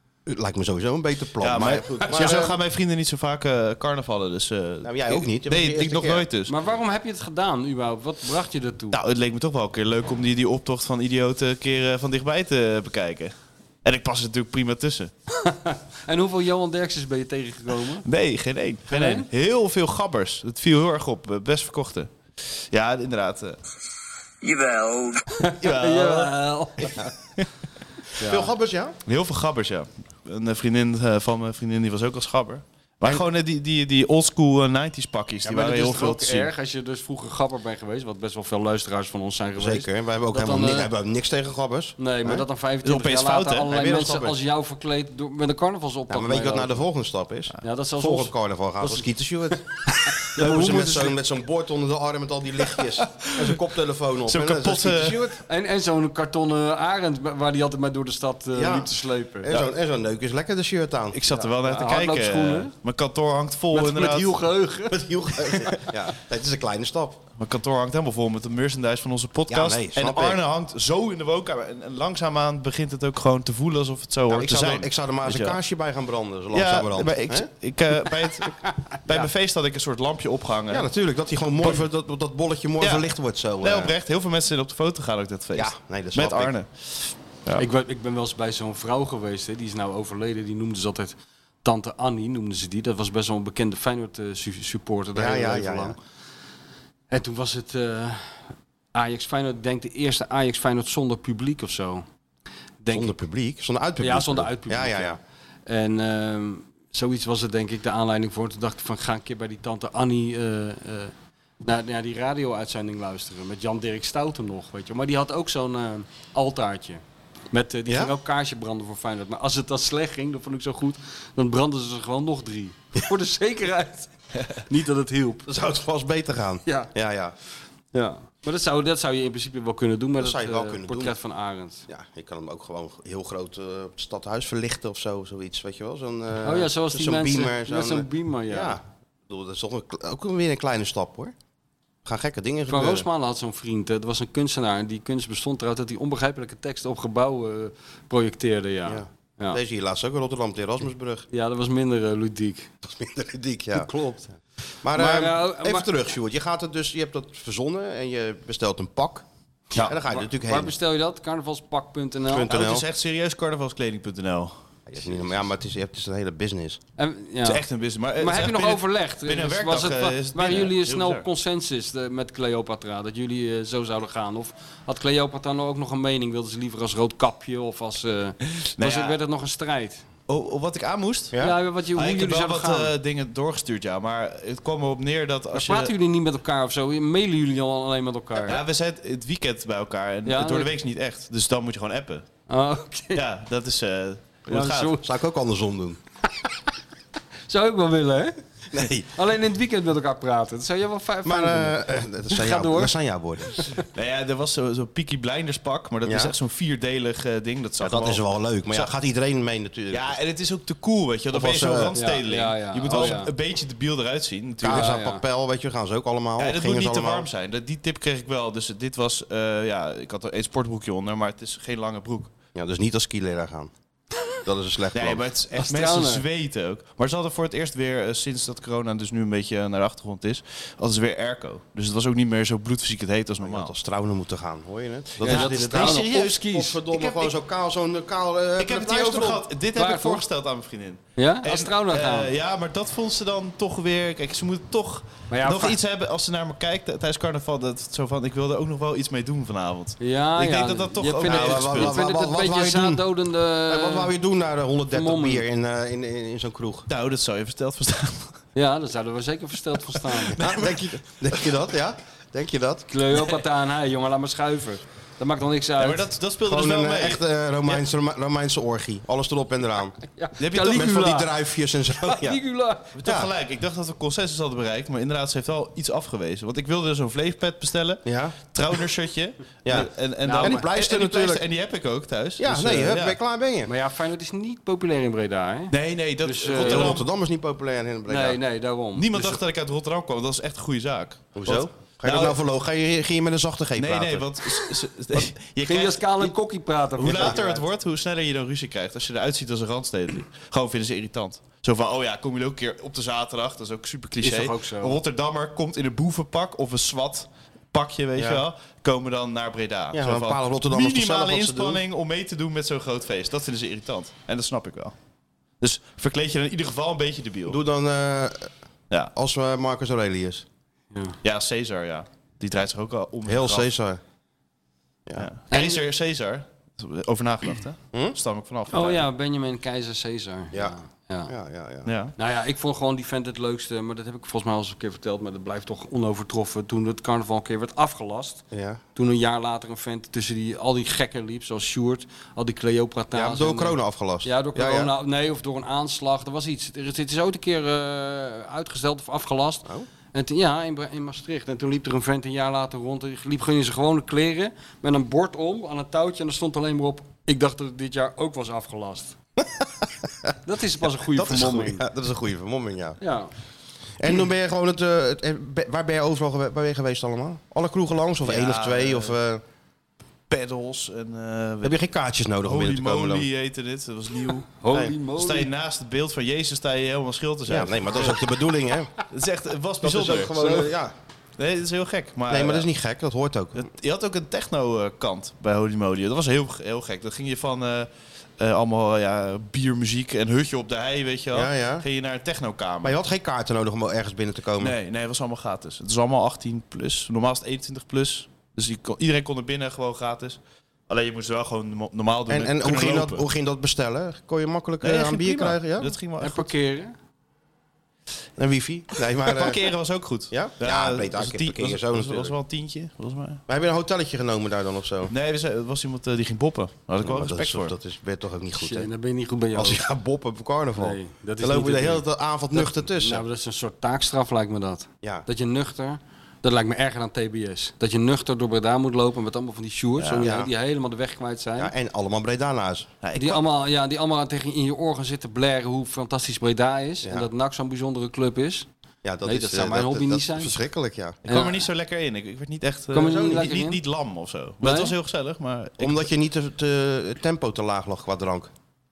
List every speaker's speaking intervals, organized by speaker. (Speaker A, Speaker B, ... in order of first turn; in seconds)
Speaker A: 0.3-2.6, 4.8-6.3, 28.2-29.0, 39.6-42.5, 43.7-44.4, 46.1-49.6, 50.4-55.4, 58.5-61.2, 64.9-67.2, 69.5-70.4, 74.3-77.5, 80.7-83.9, 85.6-86.5, 95.2-96.0, 102.9-105.2, 117.9-118.1, 125.5-127.3, 130.2-131.1, 131.9-141.3, 142.1-143.1, 148.9-151.3, 152.8-154.2, 154.8-159.2, 159.8-160.8, 162.3-162.9, 164.9-166.8, 195.0-196.0, 198.7-199.1, 201.2-203.7, 206.1-206.3, 207.8-210.2, 211.3-212.0, 212.9-213.3, 214.6-217.3, 222.6-223.7, 224.4-225.3, 233.4-239.5, 251.2-253.0, 253.7-256.9, 260.4-262.9, 266.4-270.0, 270.5-272.4, 273.0-273.3, 278.1-278.4, 279.6-281.4, 282.4-283.7, 286.6-288.4, 291.4-294.6, 308.2-308.4, 309.9-311.8, 317.5-318.5, 319.1-320.5, 323.3-324.0, 330.5-331.9, 338.5-338.8, 343.1-344.9, 359.4-360.3, 361.1-363.0, 364.0-369.4, 371.6-373.3, 377.5-378.9, 379.8-380.9, 382.3-383.7, 391.3-391.9, 392.8-394.8, 402.3-405.9, 408.4-409.6, 410.3-412.4, 413.5-415.1, 417.0-418.9, 419.5-423.2, 430.2-430.5, 431.6-433.0, 439.0-441.2, 443.1-443.4, 445.8-448.5
Speaker B: 1.4-6.5, 8.9-15.1, 18.1-22.1, 22.7-23.6, 25.6-26.3, 26.8-27.5, 29.1-36.5, 42.8-43.8, 53.1-53.5, 54.3-55.2, 61.1-64.3, 67.4-75.6, 76.5-80.9, 82.8-87.7, 162.5-164.6, 167.4-171.2, 178.6-179.2, 180.3-181.4, 181.9-185.9, 188.5-192.3, 193.1-194.9, 203.9-208.9, 209.9-214.9, 216.4-222.3, 224.9-233.8, 235.2-236.4, 236.9-237.3, 238.6-252.0, 256.9-258.4, 260.2-260.8, 265.8-267.8, 270.4-271.3, 272.9-283.2, 285.7-287.0, 289.0-292.4, 293.8-296.3, 297.0-314.9, 315.6-317.6, 321.2-323.7, 325.2-329.1, 331.9-332.1, 368.2-369.1, 370.3-371.8, 372.4-374.5, 375.2-378.2, 379.1-380.7, 381.4-382.7, 383.6-393.0, 394.6-403.2, 404.8-406.5, 409.2-413.4, 415.1-417.8, 430.0-430.2, 433.0-433.4, 441.3-446.1
Speaker C: 6.5-9.0, 15.3-18.1, 18.9-19.3, 25.3-27.0, 28.2-28.5, 35.5-40.9, 42.0-46.8, 47.6-49.6, 50.2-51.1, 55.5-59.5, 61.6-62.7, 63.7-65.0, 87.6-96.0, 97.1-102.0, 102.8-103.2, 104.0-111.1, 111.6-125.4, 126.7-126.9, 127.9-131.8, 136.4-138.8, 142.7-149.6, 151.3-152.7, 153.8-154.2, 154.9-156.0, 160.0-162.5, 167.0-167.7, 168.2-180.0, 181.4-182.9, 185.5-188.6, 190.3-190.7, 192.5-193.2, 194.5-195.1, 197.5-198.4, 199.2-202.9, 203.5-203.8, 212.0-213.3, 214.7-215.2, 225.5-226.2, 235.2-236.8, 239.8-240.2, 241.2-242.3, 245.3-245.8, 250.0-254.1, 254.9-255.4, 258.6-260.4, 262.9-266.1, 270.2-271.2, 272.1-272.9, 280.2-280.6, 283.7-287.0, 288.1-289.4, 295.7-297.7, 304.2-305.0, 320.9-321.2, 325.5-325.8, 328.7-331.3, 332.2-338.4, 339.0-359.2, 360.5-361.9, 363.0-363.3, 374.6-375.5, 406.2-406.9, 418.6-419.8, 420.8-431.7, 433.2-438.7, 439.2-440.6, 442.9-443.8, 444.6-444.9